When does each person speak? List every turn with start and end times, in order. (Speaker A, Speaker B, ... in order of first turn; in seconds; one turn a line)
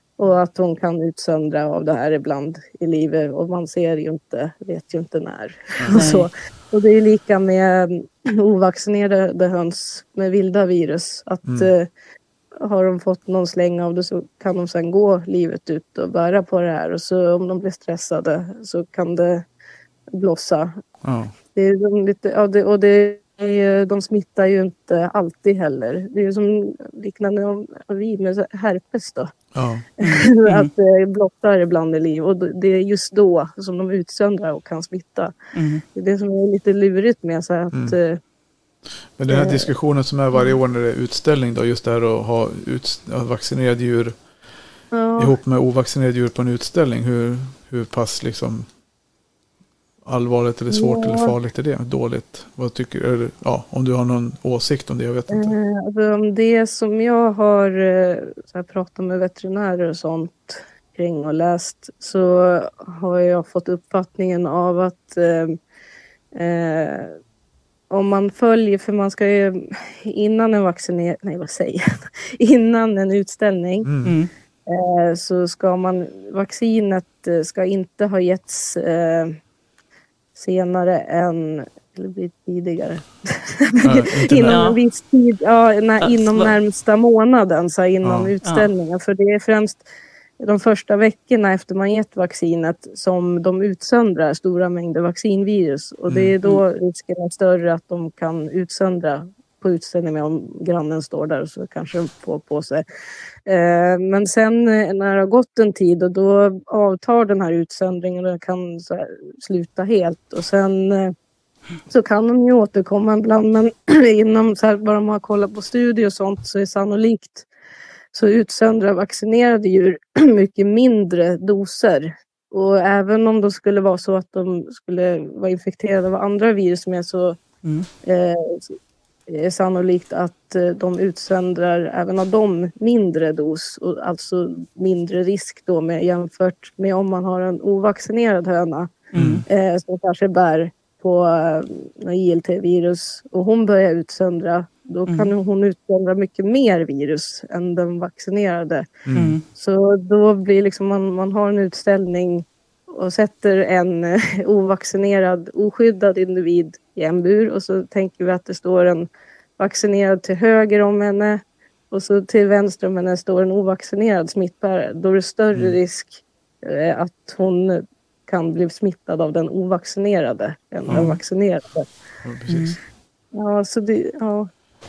Speaker A: 0.2-11.9
Speaker B: 5.8-6.0
Speaker C: 5.9-6.3
Speaker A: 12.6-19.4
Speaker A: 20.1-20.8
Speaker B: 21.0-21.3
Speaker A: 21.5-29.3
Speaker B: 29.5-29.9
Speaker A: 30.0-35.3
Speaker C: 30.0-30.7
Speaker C: 35.5-35.8
Speaker A: 35.9-38.2
Speaker B: 39.2-44.1
Speaker A: 39.3-39.7
Speaker A: 44.9-45.4
Speaker B: 45.2-48.7
Speaker B: 50.0-55.5
Speaker A: 50.7-51.3
Speaker A: 55.3-65.6
Speaker A: 66.3-67.2
Speaker A: 67.9-73.9
Speaker B: 73.8-74.2
Speaker C: 74.0-74.3
Speaker A: 74.7-79.4
Speaker A: 80.3-89.8
Speaker B: 83.8-84.6
Speaker C: 84.4-84.8
Speaker C: 86.0-86.5
Speaker B: 88.0-88.3
Speaker C: 88.4-88.7
Speaker A: 90.4-102.8
Speaker A: 103.5-111.1
Speaker A: 111.9-117.5
Speaker A: 118.1-127.4
Speaker C: 127.6-127.9
Speaker A: 128.0-128.8
Speaker A: 129.3-148.9
Speaker C: 139.1-139.4
Speaker B: 139.1-139.4
Speaker B: 149.1-149.4
Speaker C: 149.1-149.4
Speaker A: 149.5-171.9
Speaker B: 170.9-171.1
Speaker C: 170.9-171.2
Speaker B: 172.2-172.8
Speaker C: 172.5-172.8
Speaker A: 173.3-174.5